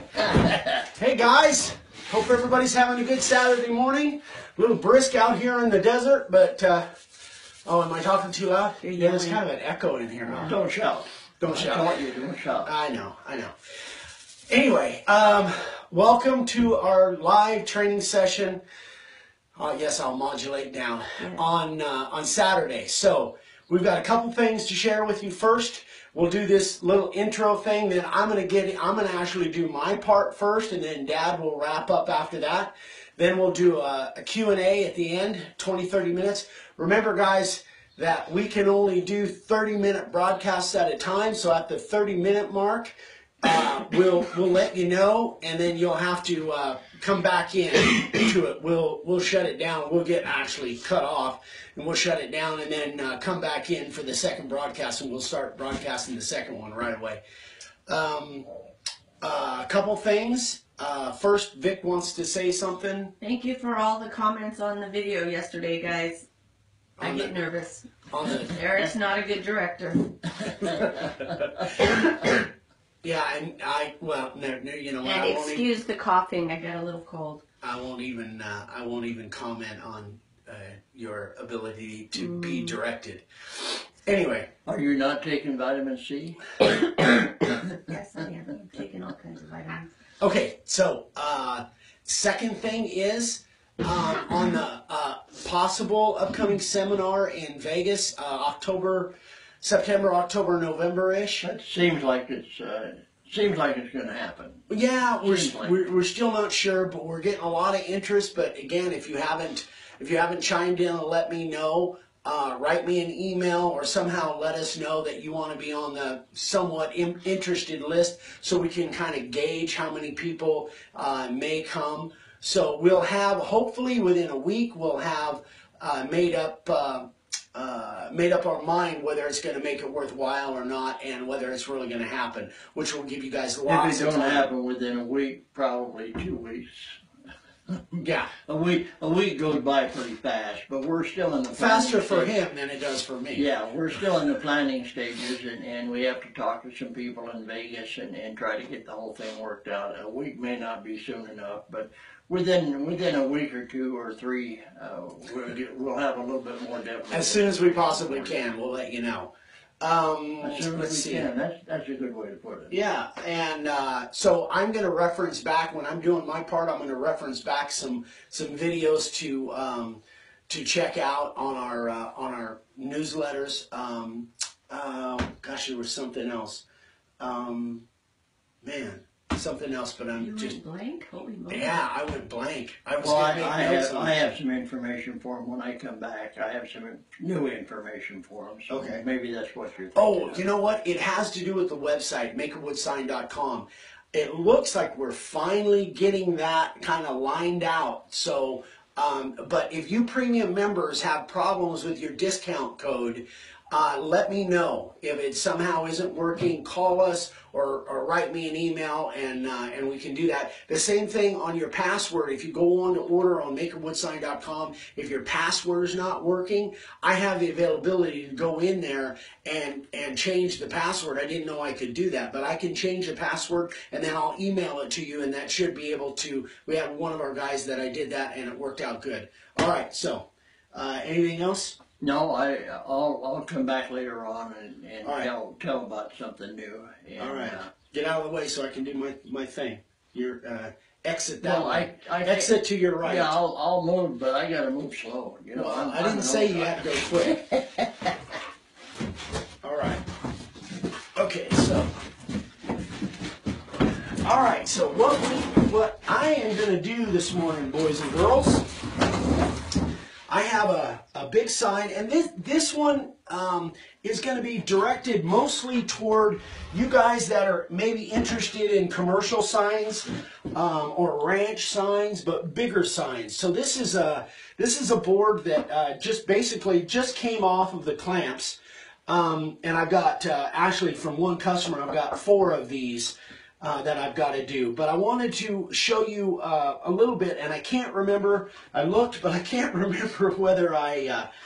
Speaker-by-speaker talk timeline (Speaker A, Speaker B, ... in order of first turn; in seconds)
Speaker A: 0.3-0.7, 10.3-12.7, 84.6-87.5, 101.4-104.6, 105.2-105.7, 133.7-137.0, 138.4-142.3, 143.3-158.3, 160.4-162.7, 183.0-190.4, 232.0-237.7, 241.4-248.1
Speaker B: 0.9-6.9, 7.6-10.6, 11.4-11.9, 12.6-13.5, 14.5-18.6, 19.6-57.2, 57.9-58.5, 59.2-63.1, 67.0-67.3, 68.1-68.5, 71.6-72.5, 73.0-75.7, 77.6-84.5, 90.2-101.5, 104.7-134.5, 138.0-138.3, 141.5-143.4, 157.1-161.3, 162.7-176.6, 177.2-177.8, 178.6-180.6, 181.5-184.2, 188.7-189.0, 189.9-231.8, 235.0-235.3, 237.2-243.3, 245.5-247.4, 249.6-250.1, 251.2-251.9, 254.2-258.7, 260.3-291.3
Speaker C: 8.8-9.4, 63.2-66.3, 67.0-70.8, 75.0-77.4, 82.1-82.8, 87.8-89.9, 180.2-181.8